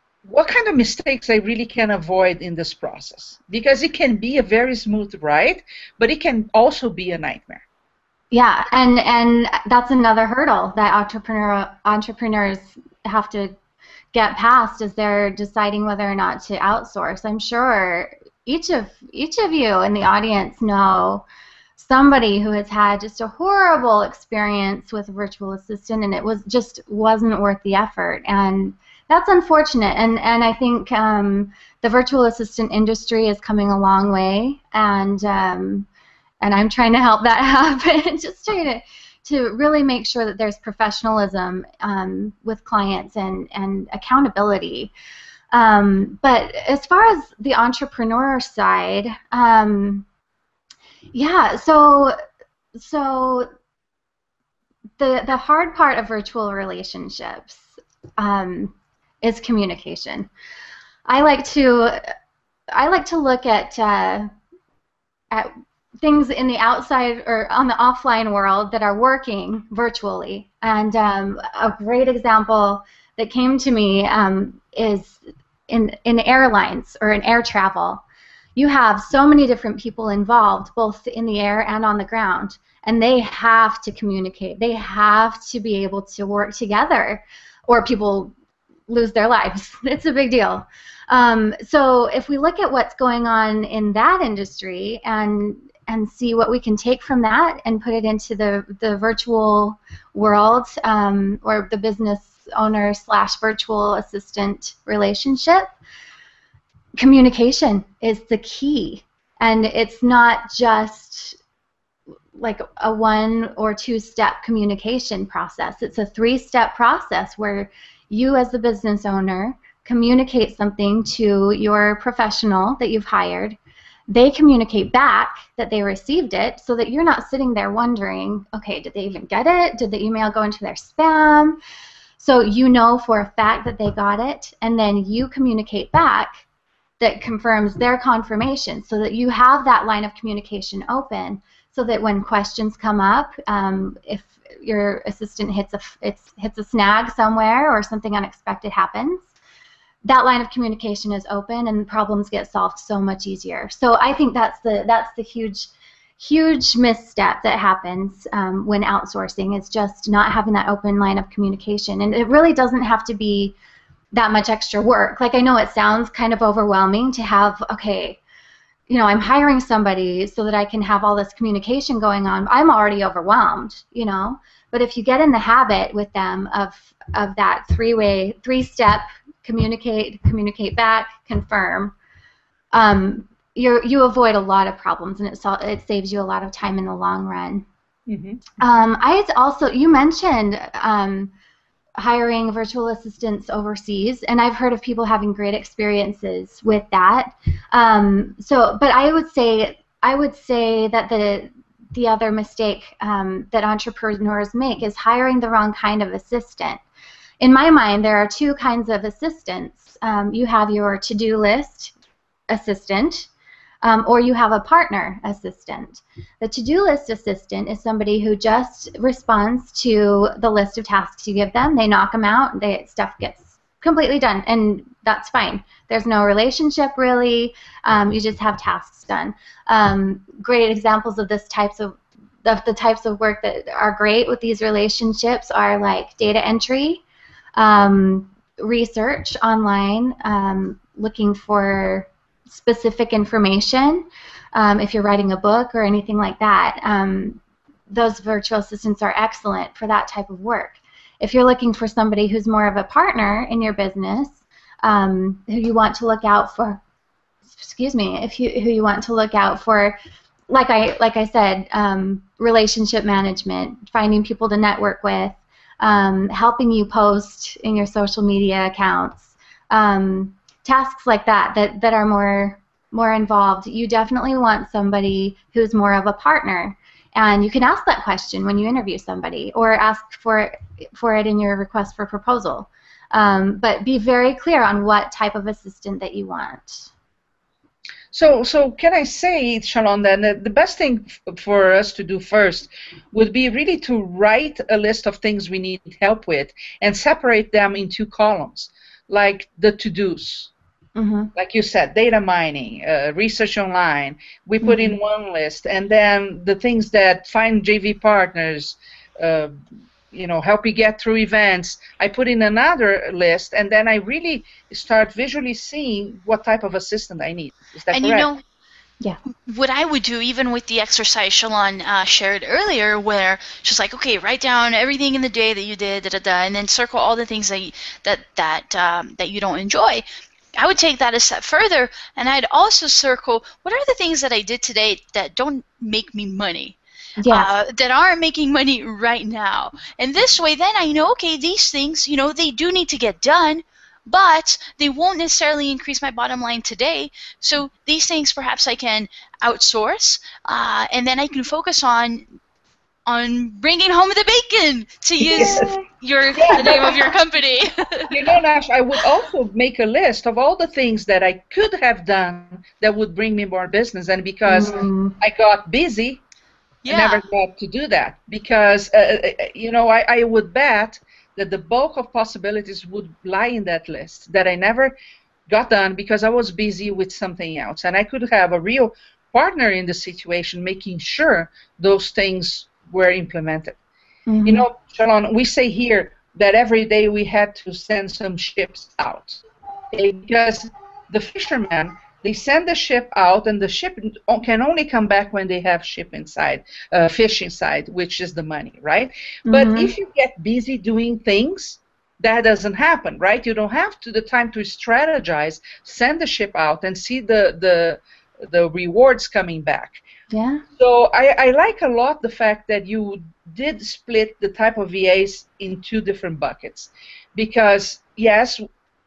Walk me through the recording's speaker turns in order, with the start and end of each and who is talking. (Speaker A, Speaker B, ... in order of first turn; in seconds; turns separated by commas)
Speaker A: 0.2-7.6, Speaker B: 8.3-13.5, Speaker B: 14.1-21.2, Speaker B: 21.8-35.9, Speaker B: 36.4-44.9, Speaker B: 45.5-50.0, Speaker B: 51.1-52.1, Speaker B: 52.7-53.5, Speaker B: 55.0-60.3, Speaker B: 61.1-62.0, Speaker B: 62.7-64.3, Speaker B: 65.3-78.0, Speaker B: 78.5-88.3, Speaker B: 88.9-105.7, Speaker B: 107.0-111.4, Speaker B: 112.3-123.6, Speaker B: 124.1-131.6, Speaker B: 132.2-136.3, Speaker B: 137.0-149.3, Speaker B: 150.0-163.5, Speaker B: 164.1-168.2, Speaker B: 168.9-181.9, Speaker B: 182.7-187.6, Speaker A: 188.1-188.5, Speaker B: 188.6-191.3, Speaker B: 192.0-206.8, Speaker B: 207.4-211.9, Speaker B: 212.5-213.3, Speaker B: 213.8-237.0, Speaker B: 237.6-256.8, Speaker B: 257.5-260.0, Speaker B: 260.5-286.9, Speaker A: 288.1-300.5, Speaker B: 300.9-301.3, Speaker A: 301.3-309.5, Speaker B: 304.6-304.9, Speaker A: 310.1-318.3, Speaker C: 317.9-318.4, Speaker C: 319.4-330.0, Speaker C: 330.6-352.2, Speaker B: 337.2-337.5, Speaker C: 353.1-358.1, Speaker A: 355.2-355.7, Speaker B: 355.3-355.8, Speaker A: 356.3-357.0, Speaker A: 358.1-366.2, Speaker B: 364.4-365.1, Speaker C: 366.8-367.2, Speaker A: 366.9-374.9, Speaker A: 375.5-383.8, Speaker B: 384.3-384.6, Speaker A: 384.4-410.0, Speaker B: 399.5-399.9, Speaker B: 410.3-410.6, Speaker A: 410.8-418.6